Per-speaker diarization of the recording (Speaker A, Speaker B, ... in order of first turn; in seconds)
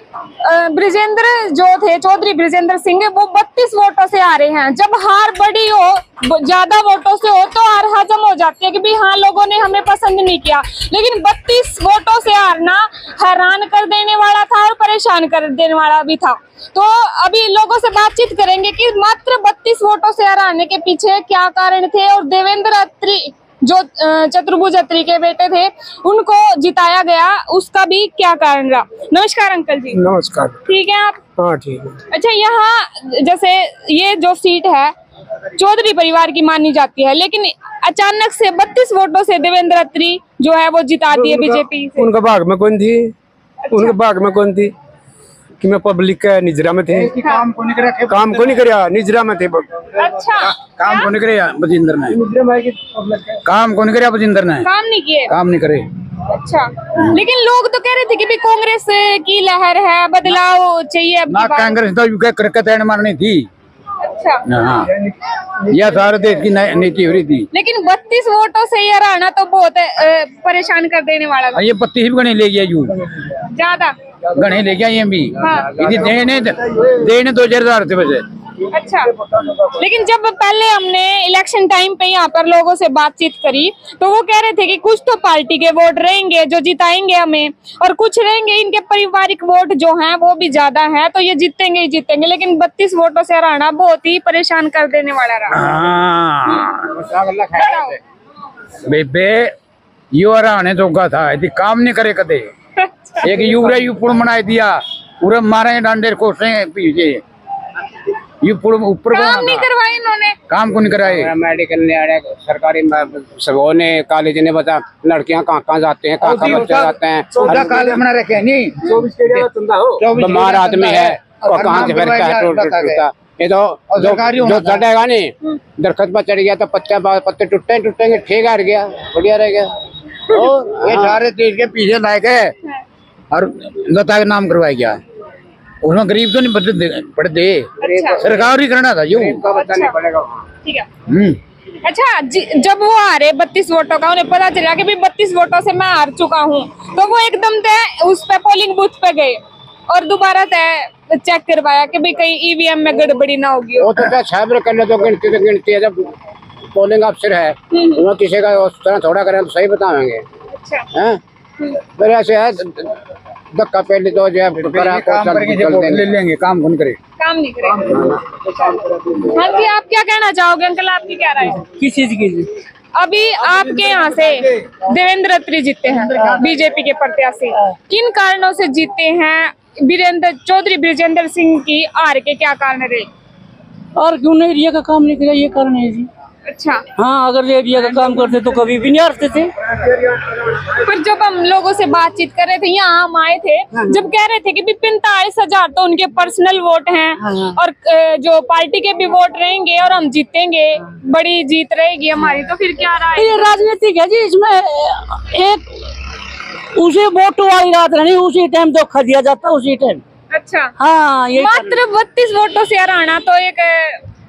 Speaker A: 0.4-30.0, 30.6-31.2, 32.1-34.9, 35.6-42.1, 43.6-44.0, 50.0-51.1, 54.6-55.3, 56.3-61.8, 64.0-64.4, 67.5-71.6, 73.5-73.9, 75.4-75.8, 78.7-79.1, 79.7-95.6, 97.6-98.0, 102.8-103.2, 109.1-110.4, 137.8-138.2, 139.5-139.9, 141.8-149.4, 149.9-154.0, 157.7-158.0, 160.5-160.8, 167.2-168.1, 169.3-171.6, 173.0-183.1, 186.5-186.8, 190.6-203.5, 210.3-210.7, 211.3-214.0
Speaker B: 29.9-30.5, 31.4-31.9, 41.1-42.1, 48.1-48.8, 52.3-53.0, 119.3-120.0, 171.6-172.5, 184.0-186.1, 187.0-189.5, 197.2-197.5, 203.1-205.7, 206.7-210.0, 210.8-211.8
Speaker C: 42.1-43.1, 43.9-44.7, 45.6-47.1, 48.1-49.6
Speaker D: 46.9-48.5, 50.5-52.1, 53.4-54.7, 55.3-55.9, 61.3-63.5, 64.5-64.9, 65.7-67.5, 71.5-72.9, 74.3-78.2, 95.5-96.9, 98.8-99.5, 100.1-102.5, 103.2-107.2, 108.4-109.7, 110.5-111.3, 116.2-116.9, 117.4-118.7, 120.2-123.0, 123.9-124.8, 130.8-132.5, 133.3-135.0, 135.8-139.4, 141.1-141.4, 164.5-167.0
Speaker E: 96.9-97.9, 111.0-117.9, 120.0-129.7, 130.3-131.2, 137.8-138.6, 139.1-140.3, 153.8-156.1, 156.7-160.2, 160.9-161.2, 161.9-162.9, 163.5-166.1